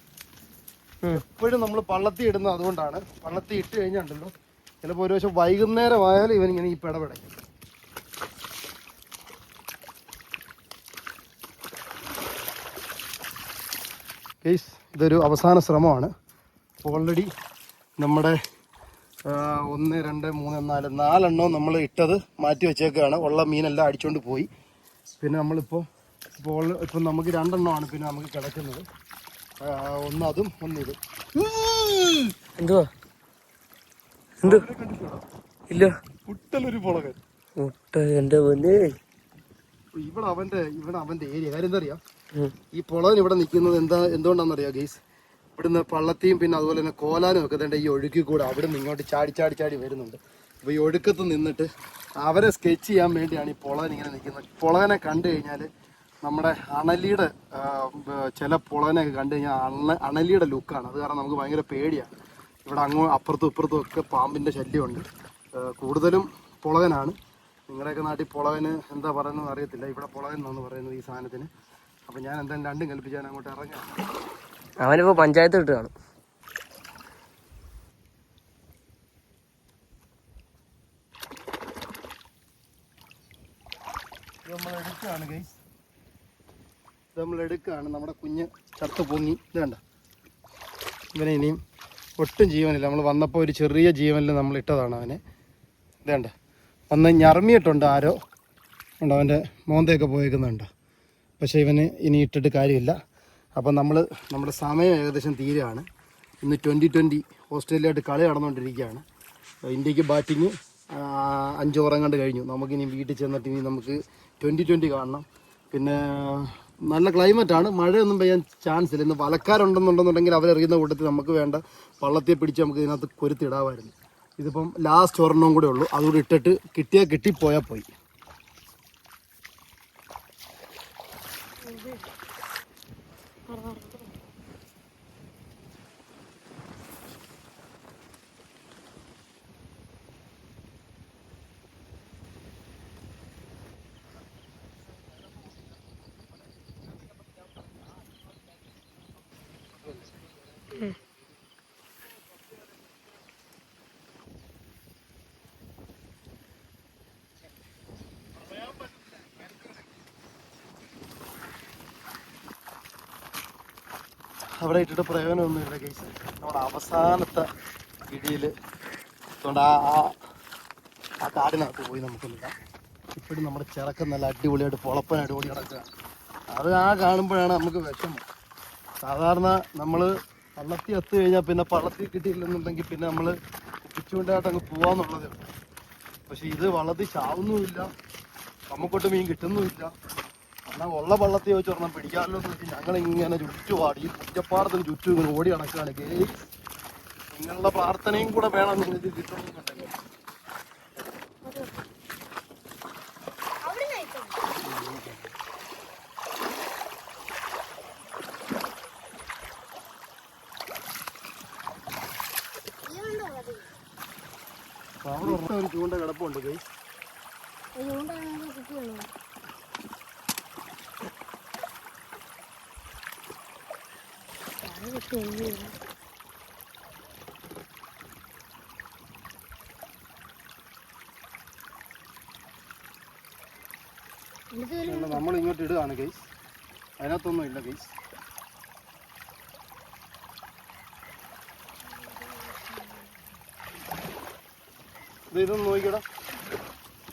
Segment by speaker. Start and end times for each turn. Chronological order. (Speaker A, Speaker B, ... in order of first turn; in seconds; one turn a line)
Speaker A: 1.1-7.3
Speaker A: 14.4-16.1
Speaker A: 16.8-17.3
Speaker A: 18.0-18.4
Speaker A: 19.3-24.5
Speaker A: 25.2-25.9
Speaker A: 26.4-28.9
Speaker A: 29.6-32.3
Speaker B: 32.6-32.9
Speaker A: 34.4-35.2
Speaker A: 36.3-37.2
Speaker B: 37.6-39.0
Speaker A: 40.0-42.0
Speaker A: 42.7-45.0
Speaker A: 45.6-51.7
Speaker A: 52.2-55.7
Speaker A: 56.2-62.1
Speaker A: 62.7-65.0
Speaker A: 65.6-67.2
Speaker A: 67.7-71.5
Speaker A: 72.1-74.0
Speaker B: 74.8-75.9
Speaker A: 84.5-85.6
Speaker A: 87.2-89.8
Speaker A: 91.1-91.6
Speaker A: 92.2-95.2
Speaker A: 96.0-96.3
Speaker A: 96.9-98.2
Speaker A: 99.0-100.7
Speaker A: 101.4-103.0
Speaker A: 103.6-105.8
Speaker A: 106.4-109.0
Speaker A: 109.7-127.9
Speaker C: 131.6-132.1
Speaker C: 133.5-134.1
Speaker A: 164.6-167.5
Speaker A: 168.1-168.5
Speaker A: 169.4-170.1
Speaker A: 171.2-172.6
Speaker A: 173.2-175.9
Speaker A: 176.5-178.2
Speaker A: 179.0-183.3
Speaker A: 183.8-185.5
Speaker A: 186.3-187.9
Speaker A: 188.7-189.9
Speaker A: 190.7-196.5
Speaker A: 197.3-199.9
Speaker C: 201.4-201.9
Speaker C: 203.6-204.4
Speaker A: 204.6-205.3
Speaker C: 212.9-213.8
Speaker A: 215.0-216.6
Speaker C: 217.8-219.1
Speaker C: 224.5-225.8
Speaker C: 234.5-235.3
Speaker A: 234.8-236.3
Speaker A: 237.0-237.9
Speaker C: 241.8-243.3
Speaker A: 245.3-246.0